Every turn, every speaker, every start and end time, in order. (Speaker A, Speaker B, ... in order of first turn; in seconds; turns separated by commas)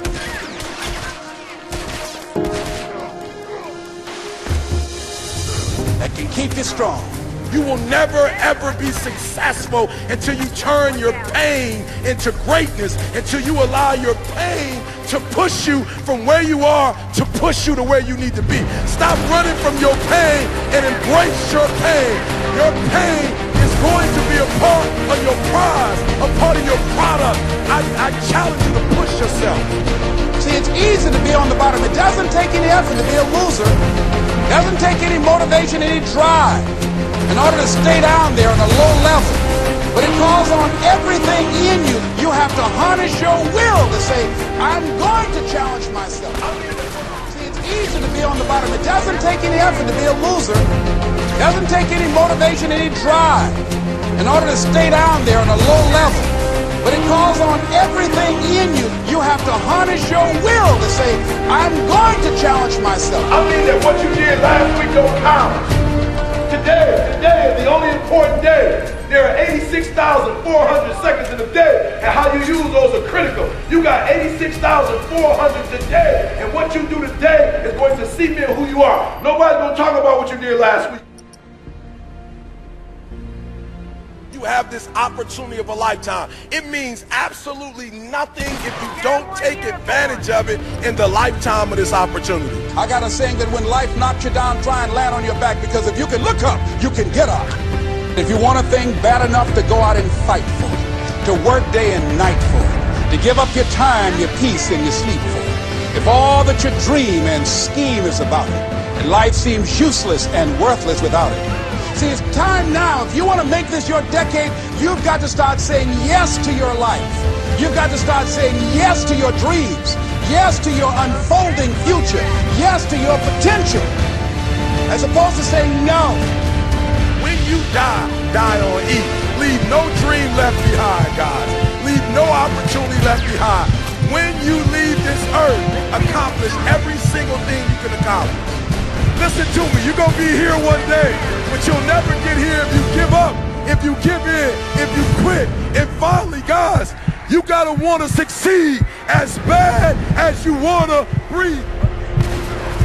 Speaker A: 6.0-7.2, Speaker B: 7.5-29.7, Speaker A: 30.4-33.8, Speaker A: 34.5-36.7, Speaker A: 37.3-46.4, Speaker B: 46.4-47.2, Speaker A: 47.3-50.7, Speaker A: 51.4-53.6, Speaker A: 54.1-63.3, Speaker B: 63.3-65.7, Speaker B: 66.5-81.0, Speaker B: 84.3-92.7, Speaker A: 92.7-97.6, Speaker A: 98.1-123.9, Speaker A: 124.9-126.3, Speaker B: 127.2-138.4, Speaker B: 139.1-151.7